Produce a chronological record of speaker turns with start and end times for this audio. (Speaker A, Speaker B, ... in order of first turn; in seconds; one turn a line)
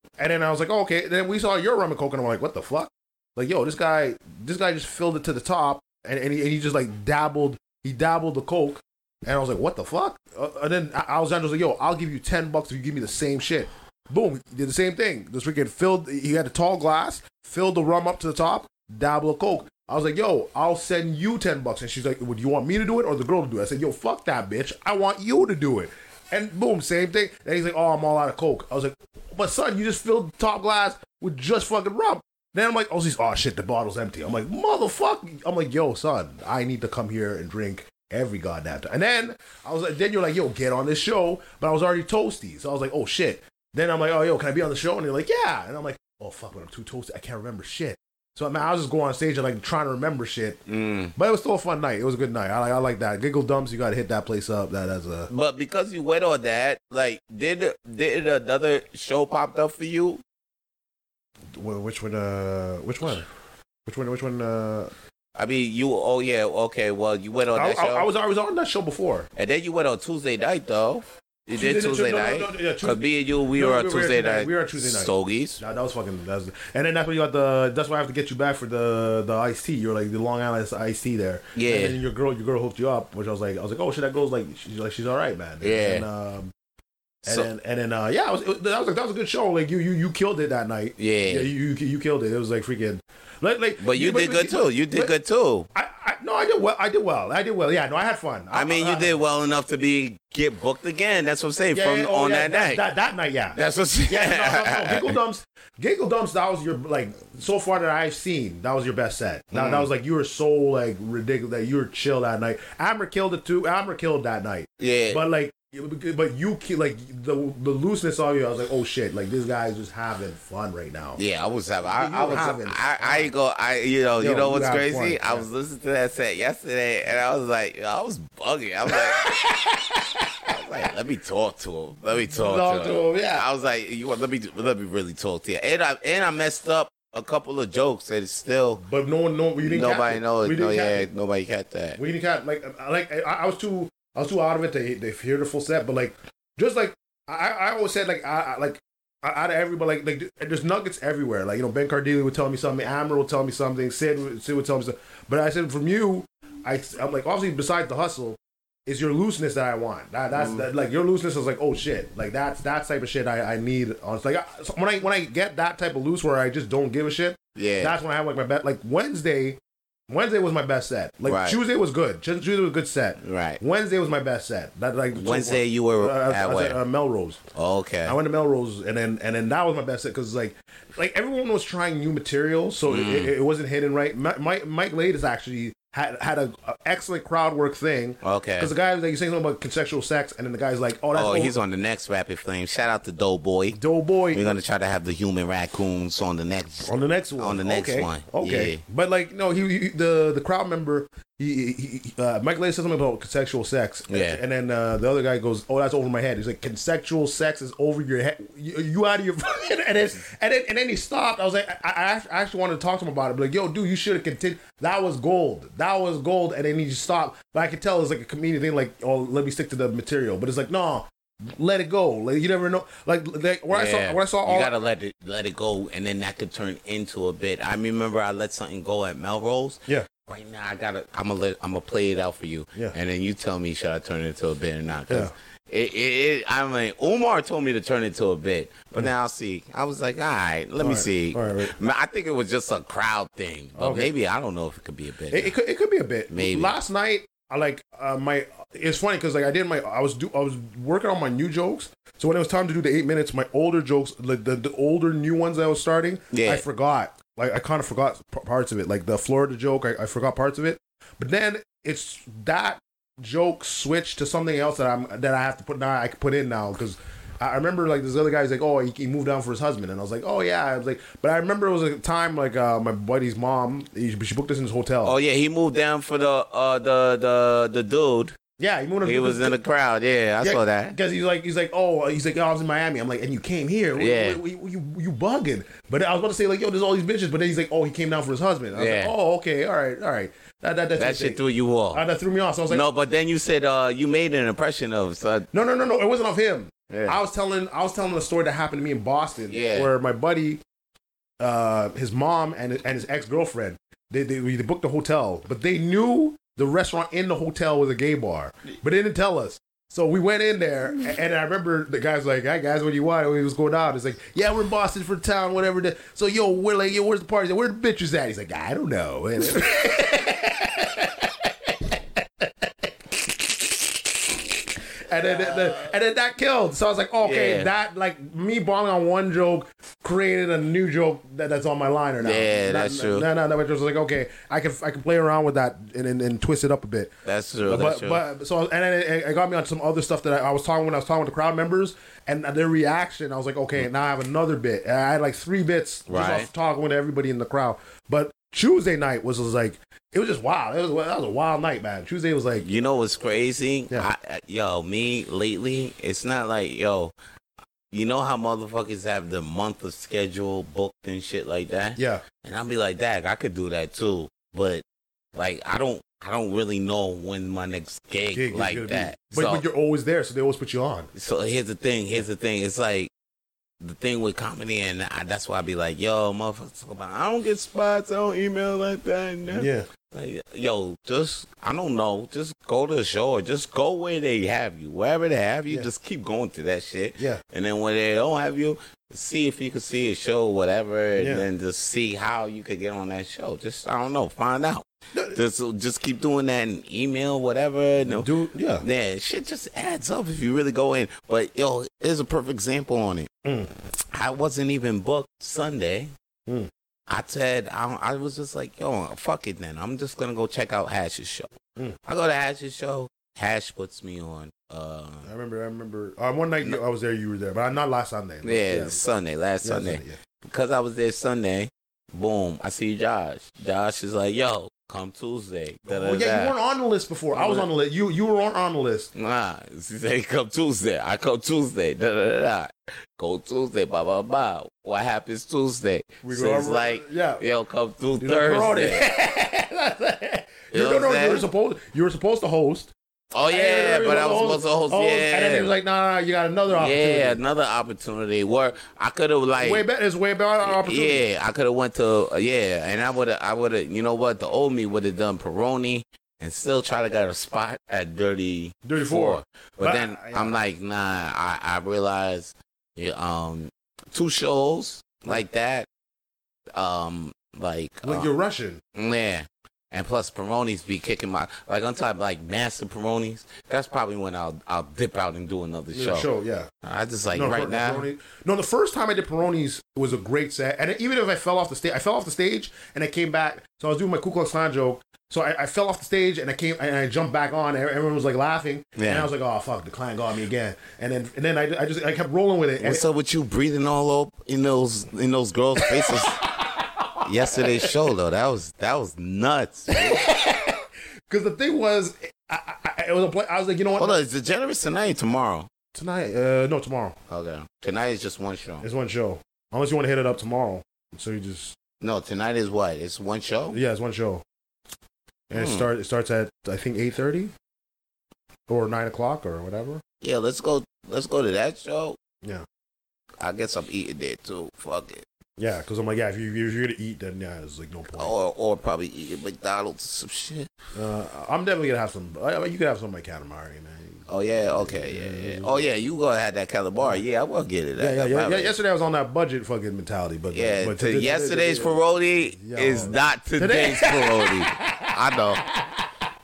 Speaker A: 0.2-50.6
Speaker B: 50.7-51.1
Speaker A: 51.1-55.3
Speaker B: 55.3-60.2
Speaker A: 61.6-63.3
Speaker A: 63.9-64.9
Speaker B: 65.3-68.1
Speaker A: 67.5-69.3
Speaker B: 69.4-75.6
Speaker A: 71.6-73.0
Speaker A: 73.5-86.5
Speaker B: 81.6-82.0
Speaker B: 85.6-86.0
Speaker A: 87.2-95.1
Speaker B: 91.0-91.5
Speaker B: 93.8-95.7
Speaker A: 95.8-99.2
Speaker B: 98.5-102.8
Speaker A: 101.7-121.2
Speaker B: 103.6-105.2
Speaker B: 109.5-109.9
Speaker B: 114.8-115.2
Speaker B: 121.2-129.2
Speaker A: 121.9-123.3
Speaker A: 124.2-125.5
Speaker A: 128.9-130.5
Speaker B: 130.5-138.8
Speaker A: 132.3-133.5
Speaker A: 138.8-141.1
Speaker B: 139.6-142.0
Speaker A: 142.0-177.4
Speaker B: 160.3-160.7
Speaker B: 167.6-167.9
Speaker B: 171.2-171.6
Speaker B: 173.2-173.6
Speaker B: 175.2-176.8
Speaker B: 177.6-178.2
Speaker A: 178.1-191.6
Speaker B: 182.9-183.3
Speaker B: 188.2-188.7
Speaker B: 191.2-193.8
Speaker A: 193.7-194.5
Speaker B: 194.3-198.8
Speaker A: 196.8-224.7
Speaker B: 204.1-204.4
Speaker B: 223.7-245.5
Speaker A: 240.8-241.8
Speaker A: 243.8-244.1
Speaker A: 245.3-275.2
Speaker B: 246.3-246.7
Speaker B: 256.3-256.6
Speaker B: 275.0-278.3
Speaker A: 278.6-279.6
Speaker B: 279.0-281.0
Speaker A: 280.4-291.4
Speaker B: 284.0-284.4
Speaker B: 288.7-289.1
Speaker B: 291.0-292.0
Speaker A: 291.9-292.9
Speaker B: 292.7-295.5
Speaker A: 295.5-300.6
Speaker B: 296.9-297.2
Speaker B: 299.5-299.9
Speaker A: 301.4-322.9
Speaker A: 325.1-337.1
Speaker B: 325.2-325.9
Speaker B: 327.2-327.7
Speaker B: 332.2-333.3
Speaker B: 337.2-338.2
Speaker A: 337.7-352.7
Speaker B: 346.1-346.5
Speaker B: 352.6-357.1
Speaker B: 357.9-364.8
Speaker A: 362.0-362.2
Speaker B: 365.4-369.6
Speaker A: 368.3-371.1
Speaker B: 371.1-373.1
Speaker B: 373.8-398.3
Speaker A: 379.5-379.9
Speaker A: 391.2-391.5
Speaker A: 395.1-395.4
Speaker A: 398.0-398.9
Speaker B: 398.8-403.3
Speaker A: 403.4-403.7
Speaker B: 404.1-406.1
Speaker B: 407.1-411.5
Speaker B: 412.1-415.3
Speaker A: 415.2-419.0
Speaker B: 418.4-426.5
Speaker A: 419.6-420.2
Speaker A: 425.9-429.1
Speaker B: 427.3-427.7
Speaker B: 429.1-439.1
Speaker A: 436.2-437.4
Speaker A: 438.2-442.9
Speaker B: 440.7-441.5
Speaker B: 443.3-445.7
Speaker A: 443.5-447.4
Speaker B: 446.7-449.9
Speaker A: 449.6-451.2
Speaker B: 450.6-465.9
Speaker A: 458.9-460.6
Speaker B: 466.7-468.3
Speaker A: 468.0-468.8
Speaker B: 468.9-476.3
Speaker A: 475.9-476.7
Speaker B: 476.8-478.1
Speaker A: 477.3-493.0
Speaker B: 489.0-489.3
Speaker B: 492.8-496.4
Speaker A: 495.8-497.9
Speaker B: 497.2-500.2
Speaker A: 499.9-504.2
Speaker B: 504.0-505.7
Speaker A: 505.9-507.2
Speaker B: 507.3-508.9
Speaker A: 508.8-511.8
Speaker B: 512.0-513.8
Speaker A: 513.7-514.4
Speaker A: 515.5-517.5
Speaker B: 515.5-515.9
Speaker A: 518.7-520.0
Speaker B: 520.2-522.2
Speaker B: 523.4-525.2
Speaker A: 525.6-528.3
Speaker B: 528.1-530.7
Speaker A: 531.0-535.9
Speaker B: 534.3-538.7
Speaker A: 538.0-542.0
Speaker B: 540.5-545.7
Speaker A: 542.5-546.3